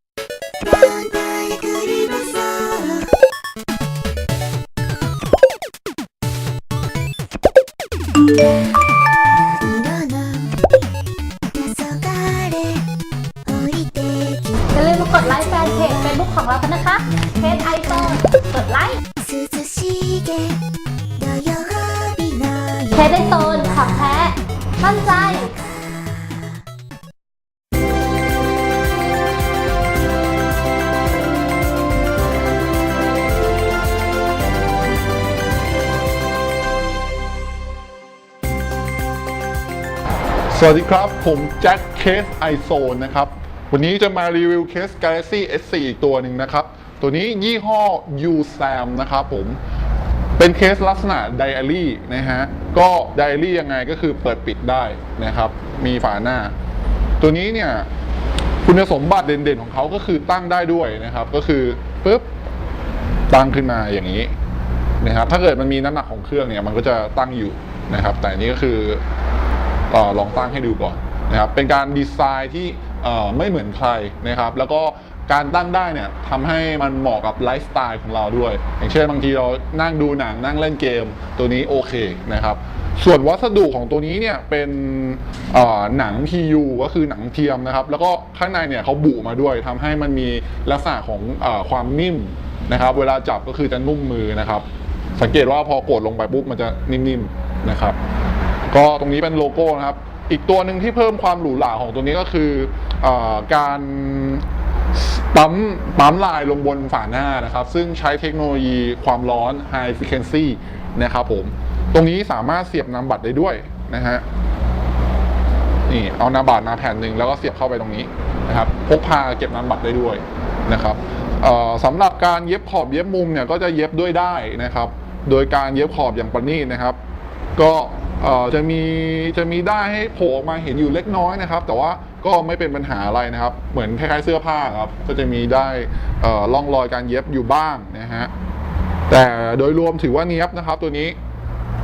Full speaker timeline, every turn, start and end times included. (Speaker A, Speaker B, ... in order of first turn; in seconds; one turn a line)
Speaker A: 0.6-3.2
Speaker A: 9.3-10.6
Speaker A: 11.5-12.9
Speaker A: 13.4-16.2
Speaker B: 14.7-19.0
Speaker A: 17.1-18.2
Speaker A: 19.2-20.6
Speaker A: 21.2-24.3
Speaker B: 22.9-25.6
Speaker A: 25.1-26.4
Speaker C: 40.5-49.6
Speaker C: 50.4-56.5
Speaker C: 57.2-57.9
Speaker C: 58.6-62.3
Speaker C: 63.3-64.3
Speaker C: 65.0-69.0
Speaker C: 69.9-98.0
Speaker C: 98.7-114.2
Speaker C: 115.9-127.0
Speaker C: 127.6-138.3
Speaker C: 139.1-141.2